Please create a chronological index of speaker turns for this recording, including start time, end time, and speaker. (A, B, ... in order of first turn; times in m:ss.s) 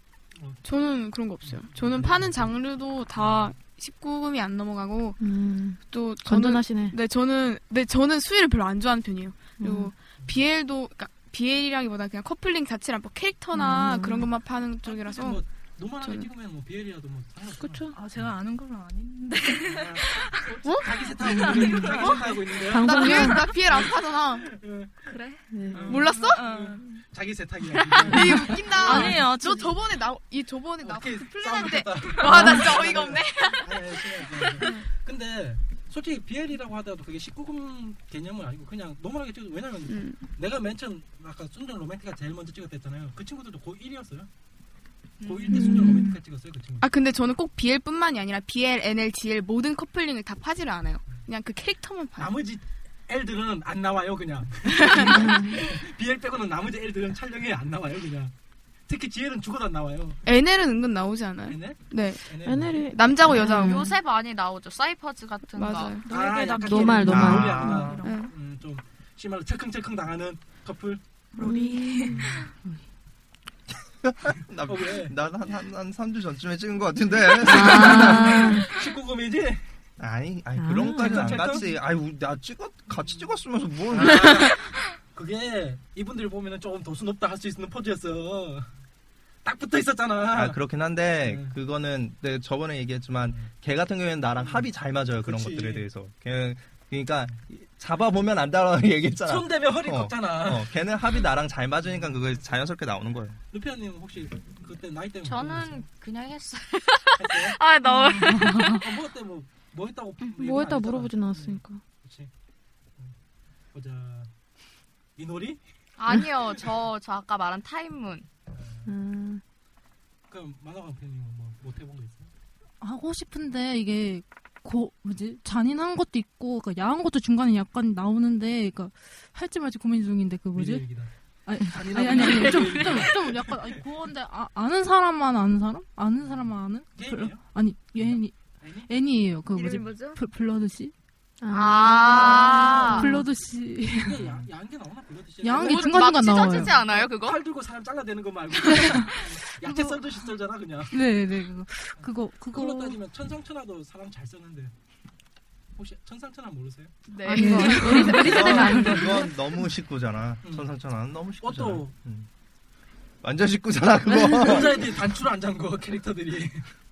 0:00.3-0:00.6 A
0:00.6-0:05.2 B
0:01.4-0:02.6 A
0:03.2-0:03.5 A
0:05.2-0:07.0 C
0:05.9-0:15.4 B
0:09.6-0:09.9 C
0:13.5-0:14.3 C
0:14.8-0:18.3 A
0:17.6-0:17.9 C
0:17.9-0:22.6 D
0:19.6-0:25.1 A
0:20.6-0:21.4 C
0:22.7-0:23.5 C
0:22.7-0:24.5 B
0:25.0-0:25.4 D
0:25.5-0:26.1 C
0:25.7-0:29.2 A
0:25.8-0:26.4 B
0:26.1-0:27.0 D
0:28.0-0:34.7 B
0:28.0-0:29.9 D
0:30.8-0:44.3 A
0:34.6-0:34.8 D
0:39.9-0:40.2 B
0:45.2-0:46.1 D
0:45.2-0:46.9 A
0:45.5-0:46.1 C
0:46.8-0:52.4 B
0:52.2-0:58.3 A
0:54.8-0:55.4 B
0:55.1-0:55.6 C
0:58.9-1:00.2 A
1:00.2-1:03.9 B
1:01.5-1:02.8 A
1:02.4-1:03.9 C
1:03.4-1:06.0 E
1:05.6-1:06.1 B
1:06.0-1:08.3 D
1:06.1-1:11.0 A
1:06.6-1:07.8 C
1:07.1-1:08.0 F
1:08.0-1:08.3 B
1:11.4-1:12.2 C
1:11.4-1:12.5 D
1:12.1-1:12.5 A
1:14.0-1:18.6 F
1:14.6-1:15.2 A
1:17.4-1:19.6 A
1:17.4-1:18.6 C
1:20.0-1:24.6 F
1:20.6-1:21.5 C
1:21.0-1:21.6 A
1:23.0-1:28.7 A
1:29.4-1:30.6 A
1:30.3-1:43.4 F
1:31.2-1:31.5 A
1:34.4-1:34.7 A
1:35.2-1:35.8 A
1:39.2-1:40.8 A
1:41.8-1:42.4 A
1:43.5-1:45.8 A
1:45.2-1:48.8 E
1:47.1-1:52.3 A
1:48.3-1:48.8 G
1:50.4-1:51.8 C
1:53.7-1:54.3 A
1:55.2-1:55.6 A
1:56.0-1:58.2 E
1:58.5-1:58.9 A
1:58.9-1:59.4 C
2:00.3-2:02.3 A
2:02.8-2:10.9 G
2:10.5-2:13.8 A
2:11.4-2:18.3 G
2:16.2-2:18.9 A
2:18.9-2:20.9 G
2:19.5-2:20.2 E
2:21.4-2:23.2 C
2:21.5-2:23.1 E
2:22.2-2:22.6 A
2:22.8-2:24.2 G
2:24.0-2:31.1 A
2:25.4-2:26.8 G
2:25.6-2:27.4 E
2:30.9-2:33.0 G
2:31.9-2:34.7 A
2:35.8-2:36.9 A
2:37.1-2:39.0 B
2:37.2-2:39.1 E
2:37.3-2:39.3 C
2:37.3-2:38.2 G
2:38.2-2:42.3 F
2:40.4-2:40.7 A
2:41.4-2:41.9 A
2:43.2-2:44.9 F
2:44.3-2:46.7 A